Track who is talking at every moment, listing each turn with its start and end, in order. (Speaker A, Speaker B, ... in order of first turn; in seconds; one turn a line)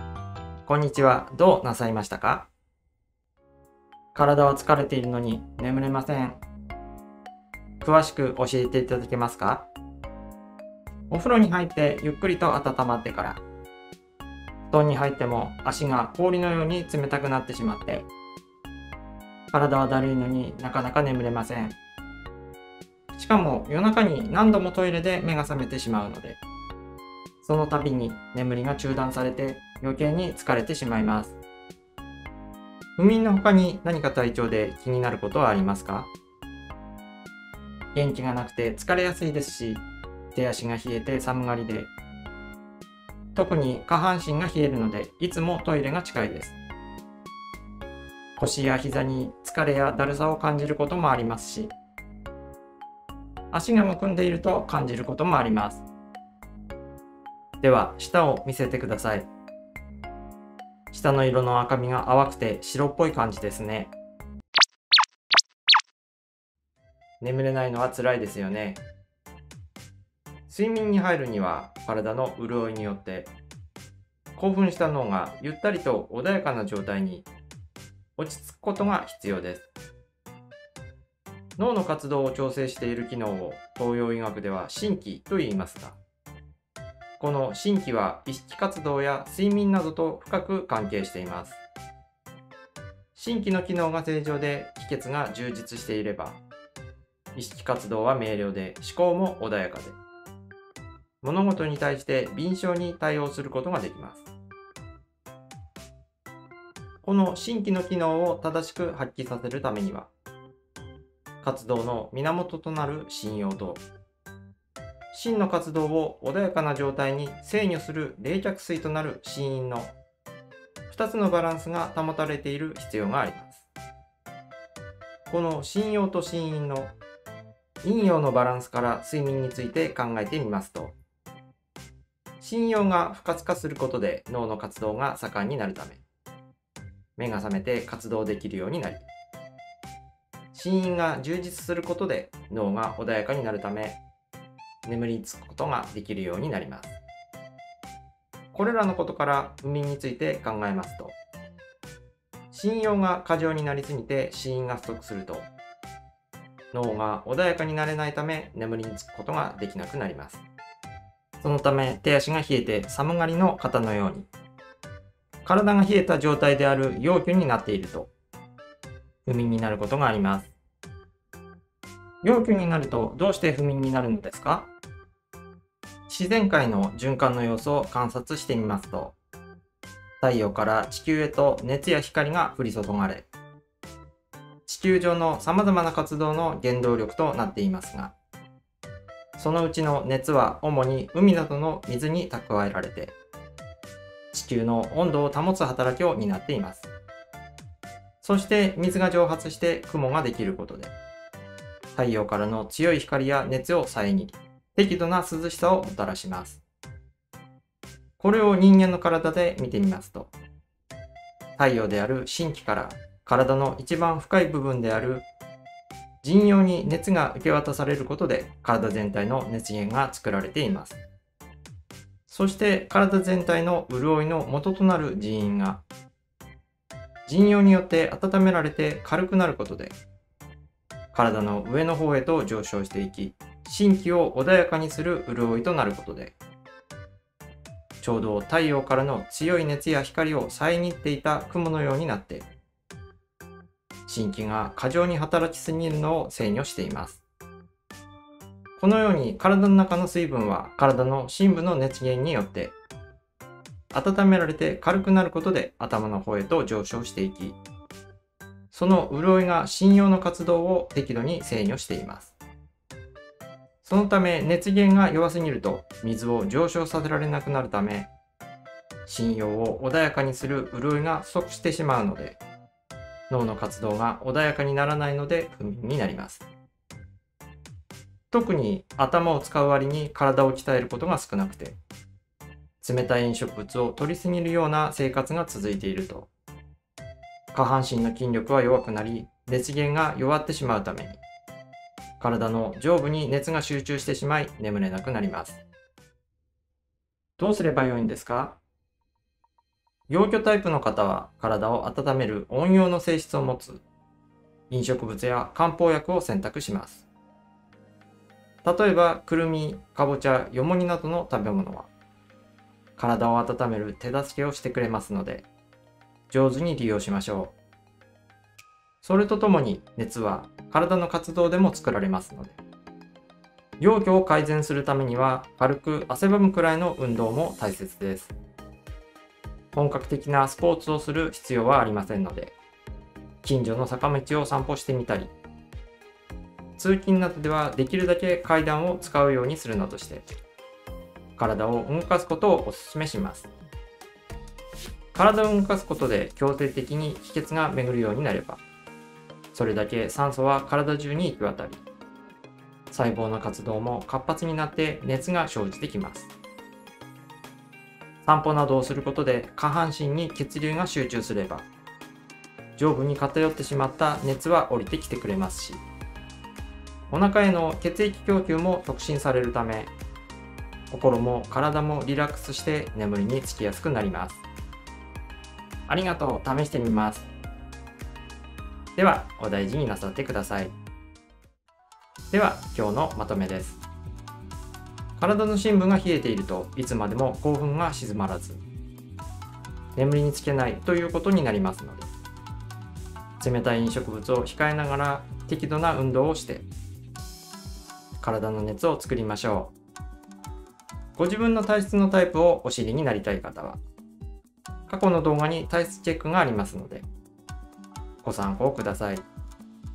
Speaker A: 0.6-2.5
Speaker A: 4.1-6.4
Speaker A: 7.8-9.7
Speaker A: 11.1-13.4
Speaker A: 14.7-18.1
Speaker A: 19.5-21.8
Speaker A: 23.1-26.4
Speaker A: 27.4-31.4
Speaker A: 33.0-36.1
Speaker A: 37.9-41.9
Speaker A: 43.3-46.6
Speaker A: 48.4-51.7
Speaker A: 53.5-55.9
Speaker A: 57.6-59.3
Speaker A: 60.9-63.9
Speaker A: 67.2-68.8
Speaker A: 70.5-73.3
Speaker A: 74.3-77.3
Speaker A: 78.2-79.7
Speaker A: 81.6-86.0
Speaker A: 87.2-91.6
Speaker A: 93.1-96.4
Speaker A: 97.3-100.0
Speaker A: 101.2-104.3
Speaker A: 107.0-110.1
Speaker A: 111.4-113.8
Speaker A: 115.1-119.9
Speaker A: 120.9-123.7
Speaker A: 125.3-126.9
Speaker A: 127.8-130.9
Speaker A: 132.4-136.0
Speaker A: 137.2-139.1
Speaker A: 140.5-144.0
Speaker A: 144.8-147.0
Speaker A: 148.5-151.2
Speaker A: 152.5-155.5
Speaker A: 156.7-160.4
Speaker A: 161.4-164.3
Speaker A: 165.4-168.1
Speaker A: 169.2-170.5
Speaker A: 172.2-174.7
Speaker A: 176.1-179.1
Speaker A: 180.2-183.3
Speaker A: 184.7-188.1
Speaker A: 189.4-193.1
Speaker A: 194.3-196.9
Speaker A: 198.2-200.9
Speaker A: 201.9-206.6
Speaker A: 208.2-210.3
Speaker A: 211.6-215.3
Speaker A: 216.2-221.0
Speaker A: 222.3-225.8
Speaker A: 227.3-229.9
Speaker A: 231.1-236.4
Speaker A: 238.0-242.5
Speaker A: 244.1-247.2
Speaker A: 248.8-252.7
Speaker A: 253.9-257.6
Speaker A: 258.7-262.4
Speaker A: 263.8-268.1
Speaker A: 269.1-272.4
Speaker A: 273.3-276.4
Speaker A: 278.3-281.8
Speaker A: 282.8-286.3
Speaker A: 287.5-291.2
Speaker A: 292.2-295.6
Speaker A: 297.4-298.6
Speaker A: 300.1-303.8
Speaker A: 304.7-307.1
Speaker A: 308.6-311.9
Speaker A: 313.0-315.5
Speaker A: 316.3-317.5
Speaker A: 319.0-322.6
Speaker A: 323.8-328.3
Speaker A: 329.7-332.5
Speaker A: 333.4-335.3
Speaker A: 336.8-340.2
Speaker A: 341.4-343.5
Speaker A: 345.1-348.6
Speaker A: 349.5-351.8
Speaker A: 352.9-356.3
Speaker A: 358.2-361.7
Speaker A: 362.8-365.8
Speaker A: 367.1-369.9
Speaker A: 370.9-374.4
Speaker A: 375.9-377.3
Speaker A: 378.9-380.7
Speaker A: 382.3-383.8
Speaker A: 385.2-388.6
Speaker A: 389.9-392.1
Speaker A: 393.4-396.6
Speaker A: 398.2-399.7
Speaker A: 401.1-403.8
Speaker A: 404.9-407.1
Speaker A: 408.2-409.2